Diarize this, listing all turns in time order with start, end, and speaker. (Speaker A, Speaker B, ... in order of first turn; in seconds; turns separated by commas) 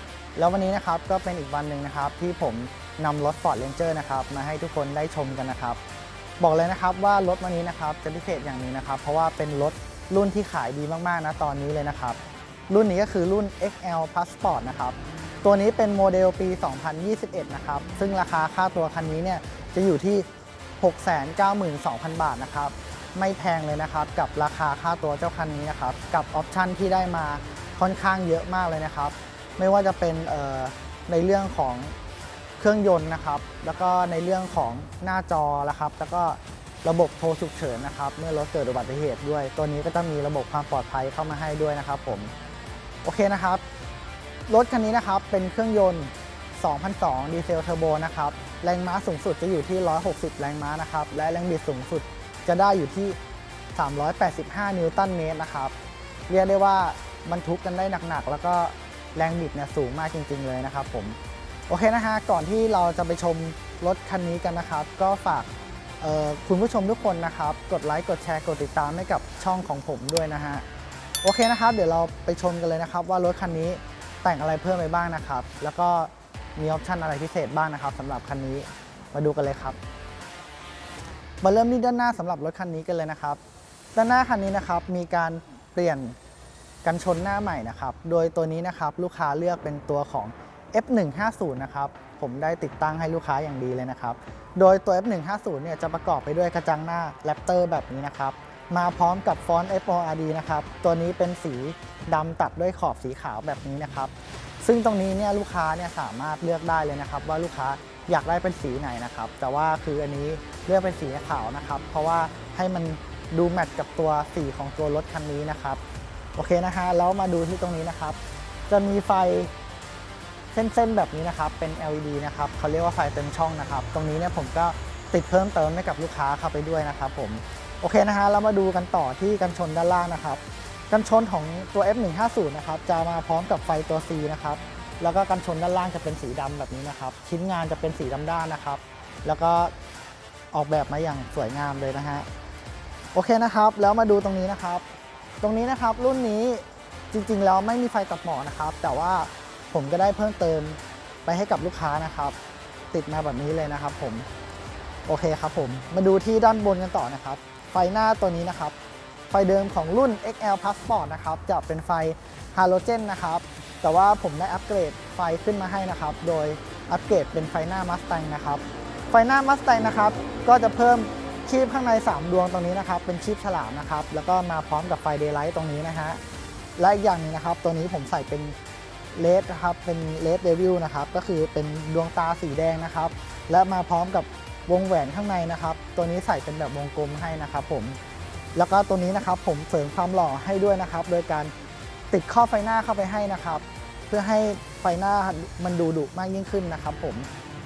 Speaker A: 0.4-5.8, Speaker A: 6.4-20.3, Speaker A: 20.8-31.9, Speaker A: 32.6-42.3, Speaker A: 43.0-43.6, Speaker A: 44.5-53.2, Speaker A: 53.8-55.7, Speaker A: 56.3-61.2, Speaker A: 61.7-70.7, Speaker A: 71.2-79.8, Speaker A: 81.4-83.4, Speaker A: 84.0-86.2, Speaker A: 86.8-115.8, Speaker A: 116.4-119.5, Speaker A: 120.5-139.7, Speaker A: 140.5-142.3, Speaker A: 143.1-144.8, Speaker A: 145.4-152.4, Speaker A: 152.9-154.3, Speaker A: 155.1-158.8, Speaker A: 159.3-176.2, Speaker A: 176.8-178.6, Speaker A: 179.1-188.0, Speaker A: 188.6-191.5, Speaker A: 192.1-197.3